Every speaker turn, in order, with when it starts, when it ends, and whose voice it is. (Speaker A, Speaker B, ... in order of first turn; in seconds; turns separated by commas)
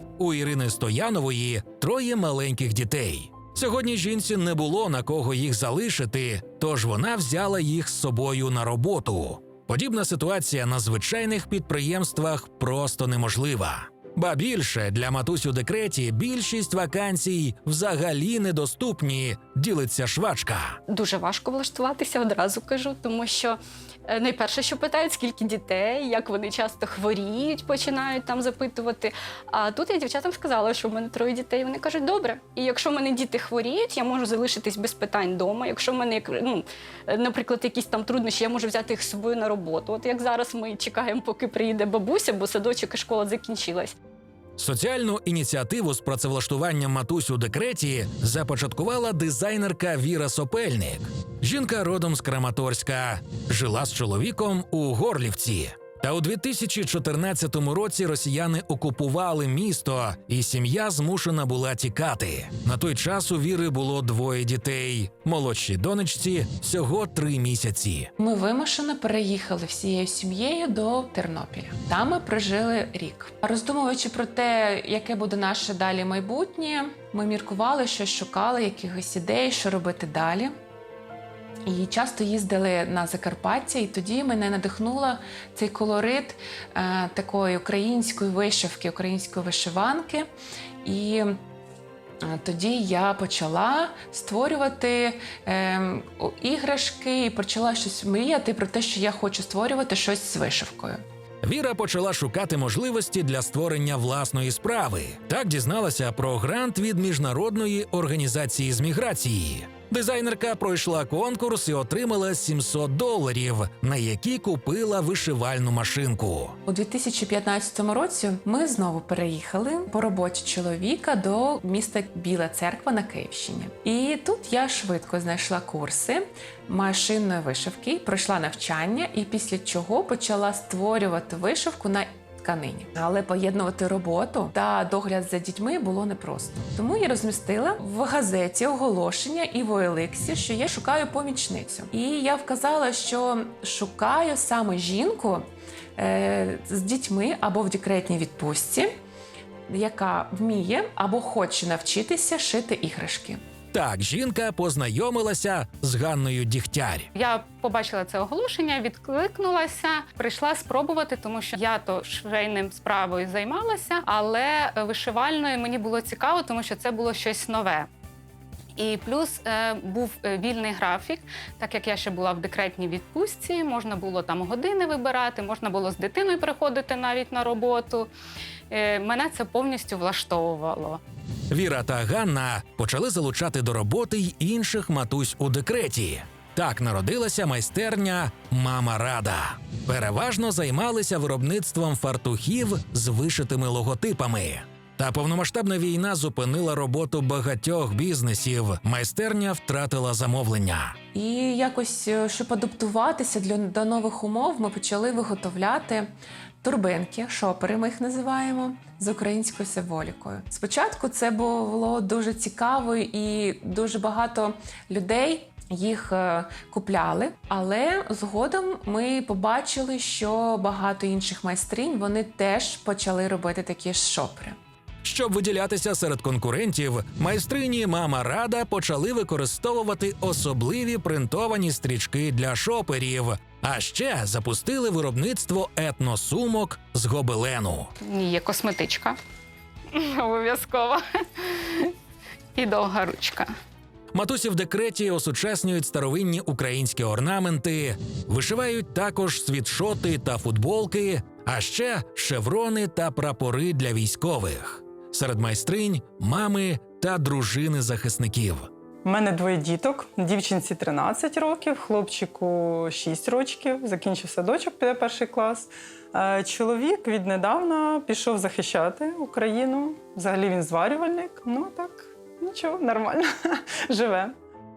Speaker A: 0.2-20.8, Speaker B: 20.9-44.0, Speaker A: 44.6-68.1, Speaker C: 68.2-80.5, Speaker C: 81.7-90.3, Speaker C: 90.8-91.4, Speaker C: 92.2-101.0, Speaker A: 101.4-116.5, Speaker C: 116.7-145.4, Speaker C: 145.9-148.9, Speaker C: 149.7-153.4, Speaker A: 153.7-157.1, Speaker D: 157.1-167.9, Speaker D: 168.8-178.1, Speaker D: 178.7-181.0, Speaker A: 181.5-200.9, Speaker C: 201.1-206.1, Speaker C: 206.6-224.6, Speaker A: 225.0-237.9, Speaker D: 238.0-239.2, Speaker D: 239.9-241.9, Speaker D: 242.6-243.5, Speaker A: 244.1-258.7, Speaker E: 259.0-274.3